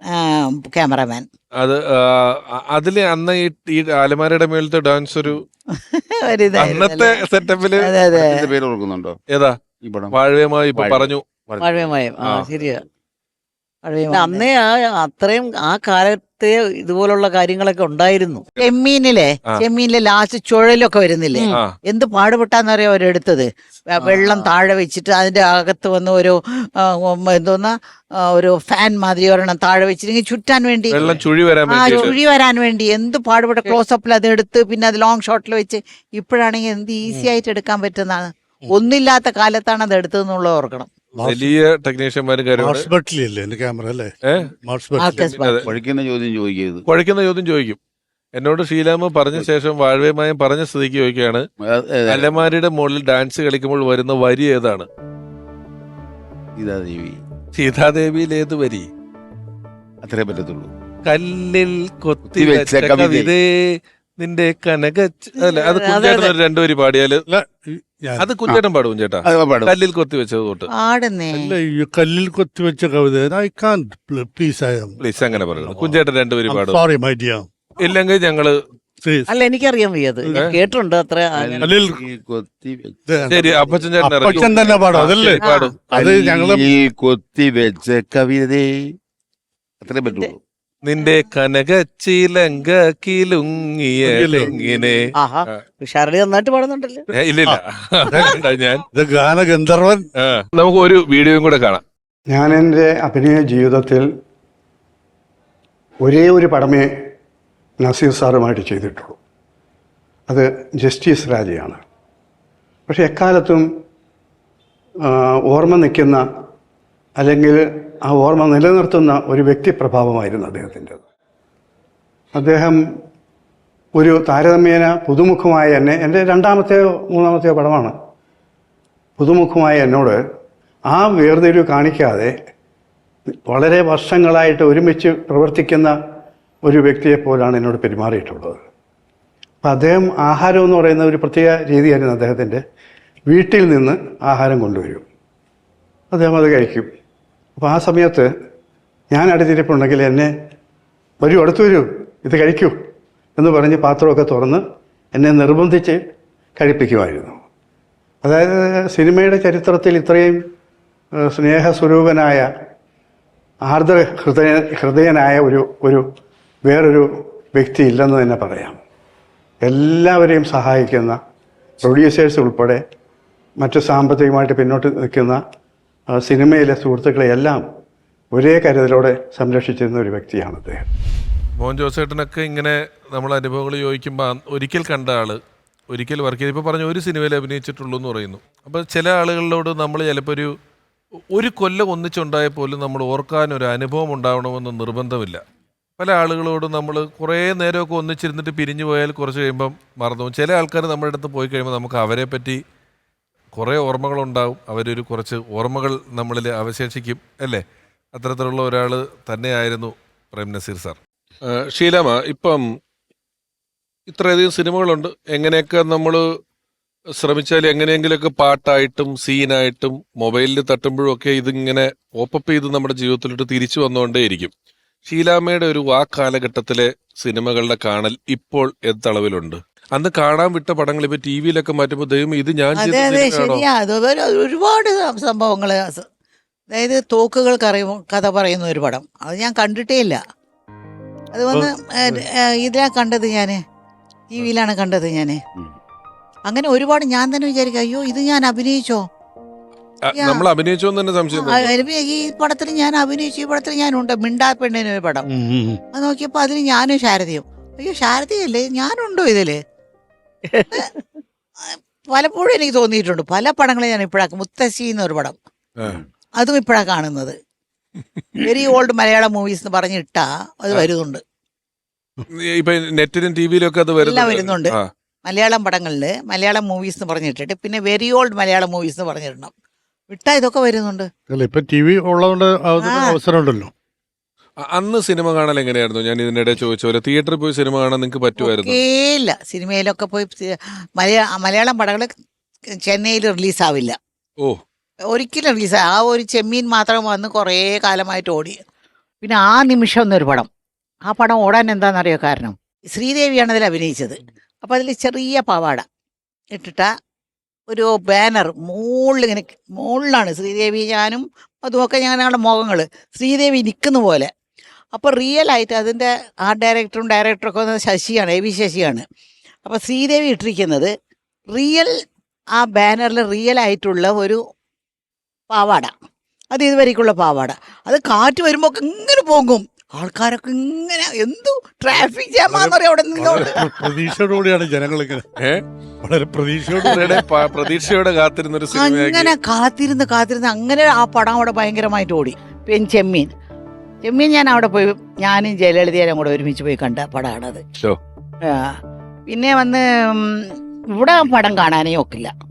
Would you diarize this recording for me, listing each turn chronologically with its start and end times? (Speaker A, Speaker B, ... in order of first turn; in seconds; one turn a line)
Speaker A: 0.1-1.2
Speaker B: 1.6-5.4
Speaker A: 5.8-7.2
Speaker B: 6.5-7.9
Speaker A: 7.8-8.4
Speaker C: 8.1-9.2
Speaker B: 9.3-9.6
Speaker C: 9.8-10.2
Speaker B: 10.1-11.3
Speaker C: 10.7-12.8
Speaker D: 11.6-12.8
Speaker B: 12.2-12.5
Speaker A: 13.8-14.5
Speaker D: 14.1-18.4
Speaker A: 18.6-31.0
Speaker D: 24.0-24.5
Speaker B: 30.9-32.1
Speaker A: 31.7-40.9
Speaker E: 41.1-41.5
Speaker B: 41.2-42.9
Speaker E: 42.6-45.7
Speaker B: 44.2-44.5
Speaker A: 45.0-45.5
Speaker B: 45.2-45.6
Speaker C: 45.6-46.8
Speaker B: 46.9-47.8
Speaker B: 48.3-51.4
Speaker C: 51.6-52.3
Speaker B: 52.1-54.9
Speaker C: 56.5-57.2
Speaker B: 57.5-58.9
Speaker C: 60.0-60.7
Speaker B: 61.0-67.2
Speaker C: 62.3-63.3
Speaker D: 65.4-66.3
Speaker E: 67.3-68.6
Speaker B: 68.2-70.7
Speaker C: 69.2-69.7
Speaker A: 70.8-71.5
Speaker E: 71.3-77.5
Speaker B: 75.0-76.8
Speaker B: 77.8-78.6
Speaker E: 79.0-79.3
Speaker D: 79.3-81.7
Speaker E: 80.2-80.5
Speaker C: 81.3-83.9
Speaker E: 81.6-82.0
Speaker E: 83.1-83.5
Speaker B: 83.3-85.8
Speaker E: 84.0-86.7
Speaker C: 85.9-88.8
Speaker C: 89.8-90.4
Speaker B: 90.8-95.6
Speaker E: 94.0-94.8
Speaker D: 95.1-97.1
Speaker B: 97.1-98.8
Speaker E: 97.5-98.4
Speaker E: 98.9-100.0
Speaker B: 100.2-101.8
Speaker F: 102.3-104.1
Speaker F: 106.0-106.9
Speaker F: 107.8-109.2
Speaker F: 110.3-111.8
Speaker F: 112.9-113.6
Speaker F: 115.0-116.2
Speaker F: 117.2-121.0
Speaker F: 122.3-122.8
Speaker F: 124.0-127.9
Speaker F: 129.2-130.2
Speaker F: 130.9-132.3
Speaker F: 133.5-135.9
Speaker F: 136.6-138.6
Speaker F: 139.6-142.6
Speaker F: 143.3-145.1
Speaker F: 146.1-146.9
Speaker F: 147.6-148.3
Speaker F: 149.1-150.3
Speaker F: 151.2-152.7
Speaker F: 153.4-154.6
Speaker F: 155.1-156.0
Speaker F: 156.6-157.4
Speaker F: 158.2-160.4
Speaker F: 161.2-162.5
Speaker F: 163.7-166.0
Speaker F: 166.6-168.8
Speaker F: 169.6-171.2
Speaker F: 171.8-172.8
Speaker F: 173.6-175.4
Speaker F: 176.1-177.6
Speaker F: 178.3-180.8
Speaker B: 181.6-185.4
Speaker B: 185.9-190.5
Speaker B: 191.3-195.4
Speaker B: 196.0-202.6
Speaker B: 203.5-207.6
Speaker B: 208.1-212.6
Speaker B: 214.1-216.2
Speaker B: 217.2-224.5
Speaker B: 225.0-233.6
Speaker A: 232.8-236.0
Speaker A: 236.7-240.2
Speaker A: 241.3-243.6
Speaker E: 241.5-242.2
Speaker A: 244.3-245.4
Speaker A: 246.5-249.0
Speaker B: 250.1-251.7
Speaker A: 251.3-255.2
Speaker E: 255.3-255.8
Speaker A: 255.9-259.6
Speaker D: 260.5-261.0
Speaker A: 262.1-265.4
Speaker A: 266.4-267.3
Speaker A: 268.4-271.2
Speaker B: 272.3-274.9
Speaker A: 274.0-279.5
Speaker A: 280.1-281.1
Speaker E: 281.3-283.7
Speaker A: 282.8-283.2
Speaker B: 284.6-288.8
Speaker A: 288.4-292.1
Speaker A: 292.9-293.9
Speaker A: 295.1-298.6
Speaker A: 299.2-300.5
Speaker A: 301.1-305.8
Speaker A: 306.5-306.9
Speaker A: 307.7-314.3
Speaker A: 314.9-319.0
Speaker A: 319.6-320.9
Speaker A: 321.5-321.9
Speaker A: 322.6-324.4
Speaker A: 325.5-325.9
Speaker A: 326.5-333.9
Speaker E: 332.5-335.3
Speaker B: 335.4-335.6
Speaker E: 336.0-337.2
Speaker B: 336.8-339.3
Speaker A: 338.7-343.3
Speaker A: 344.0-347.6
Speaker A: 348.5-348.7
Speaker A: 349.3-352.3